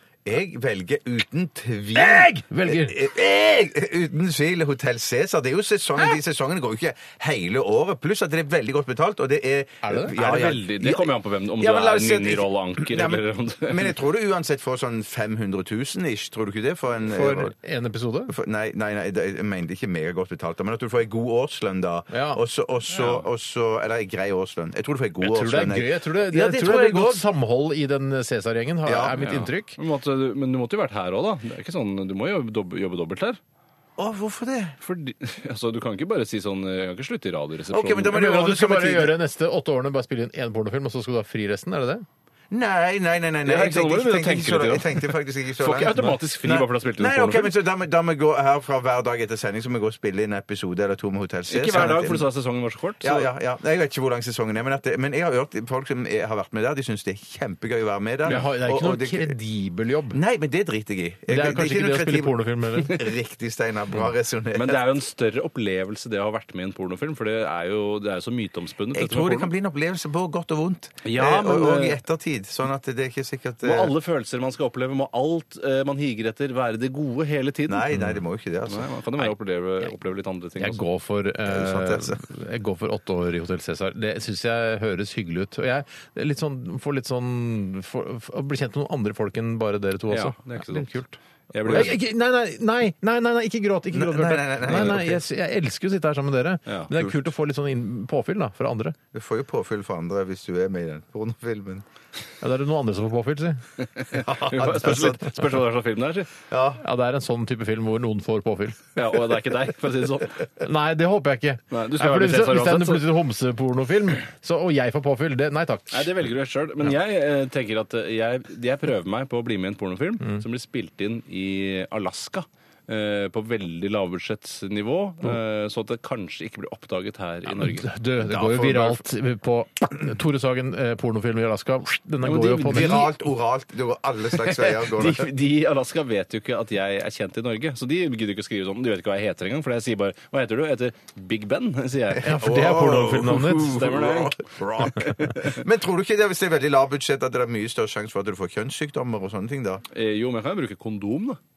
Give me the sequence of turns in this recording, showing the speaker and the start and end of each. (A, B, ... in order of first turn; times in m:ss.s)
0:00.3-0:17.5 A
0:01.9-0:03.0 B
0:09.8-0:10.1 B
0:10.1-0:13.9 C
0:17.0-0:18.3 B
0:18.3-0:27.3 A
0:22.1-0:22.4 B
0:22.9-0:23.3 C
0:25.2-0:29.8 B
0:28.9-0:29.2 A
0:29.2-0:33.4 C
0:34.0-0:34.8 A
0:34.8-0:38.1 C
0:37.7-0:39.2 A
0:38.1-0:42.0 B
0:42.5-0:52.3 A
0:43.4-0:47.5 C
0:51.5-0:53.3 C
0:53.0-0:59.4 A
0:58.2-1:00.2 B
1:00.1-1:04.8 A
1:01.3-1:03.0 B
1:04.5-1:09.5 C
1:08.9-1:13.9 A
1:11.0-1:12.0 C
1:13.6-1:17.9 C
1:17.7-1:18.9 A
1:17.9-1:18.2 B
1:18.7-1:20.8 C
1:20.6-1:39.0 B
1:21.4-1:22.2 A
1:30.1-1:30.9 C
1:31.5-1:32.0 C
1:31.7-1:31.9 A
1:33.9-1:35.2 A
1:37.0-1:37.2 A
1:39.1-1:41.8 A
1:42.4-1:43.6 B
1:43.8-1:46.3 C
1:44.1-1:45.4 A
1:46.5-1:46.8 A
1:46.8-1:48.8 B
1:49.0-1:50.5 C
1:50.6-1:56.1 B
1:51.7-1:53.1 C
1:55.9-2:07.9 C
2:07.5-2:13.1 B
2:08.2-2:09.0 A
2:12.2-2:13.1 C
2:12.7-2:15.3 A
2:14.3-2:22.4 C
2:22.2-2:29.8 A
2:22.2-2:24.0 B
2:23.6-2:25.6 C
2:29.9-2:31.4 C